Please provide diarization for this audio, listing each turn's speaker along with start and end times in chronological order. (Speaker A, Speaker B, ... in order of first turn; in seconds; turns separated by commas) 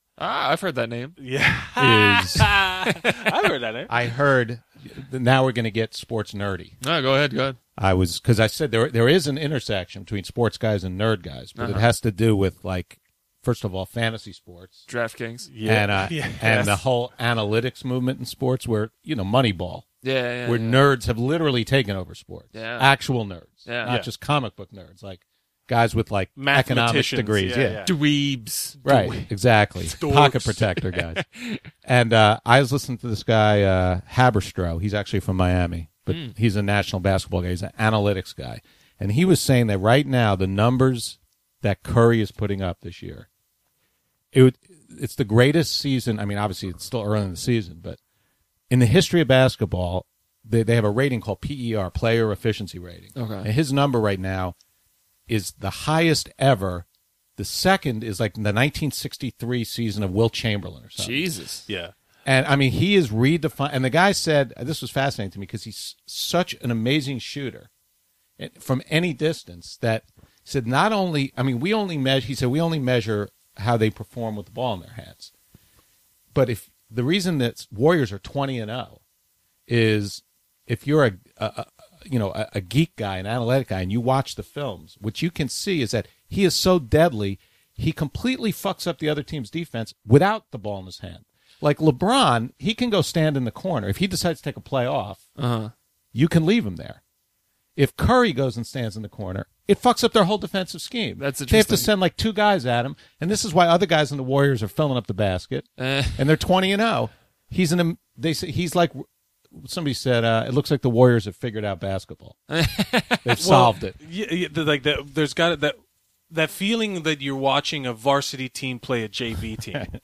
Speaker A: 0.2-1.2, Speaker B: 1.2-3.9, Speaker C: 1.8-2.5, Speaker C: 3.9-6.8, Speaker A: 6.8-7.6, Speaker C: 7.8-14.9, Speaker A: 11.6-11.9, Speaker A: 14.9-15.5, Speaker B: 15.5-16.8, Speaker C: 15.7-19.9, Speaker A: 20.0-20.8, Speaker C: 20.4-27.8, Speaker A: 22.5-22.9, Speaker A: 23.6-23.9, Speaker B: 26.4-27.9, Speaker A: 27.9-28.8, Speaker B: 28.8-29.2, Speaker C: 28.8-43.3, Speaker B: 30.0-30.6, Speaker A: 30.9-31.6, Speaker A: 36.1-36.3, Speaker C: 44.3-48.0, Speaker C: 48.7-54.5, Speaker A: 53.2-53.5, Speaker C: 55.3-56.9, Speaker C: 57.4-61.3, Speaker A: 61.0-61.7, Speaker B: 61.7-61.9, Speaker C: 62.2-67.7, Speaker C: 68.4-75.3, Speaker C: 76.3-79.0, Speaker C: 79.7-95.2, Speaker A: 95.4-95.7, Speaker C: 96.1-97.0, Speaker C: 97.8-112.4, Speaker A: 101.2-101.9, Speaker A: 105.8-106.3, Speaker A: 112.5-113.3, Speaker C: 113.2-114.0, Speaker B: 113.4-115.8, Speaker B: 116.3-119.9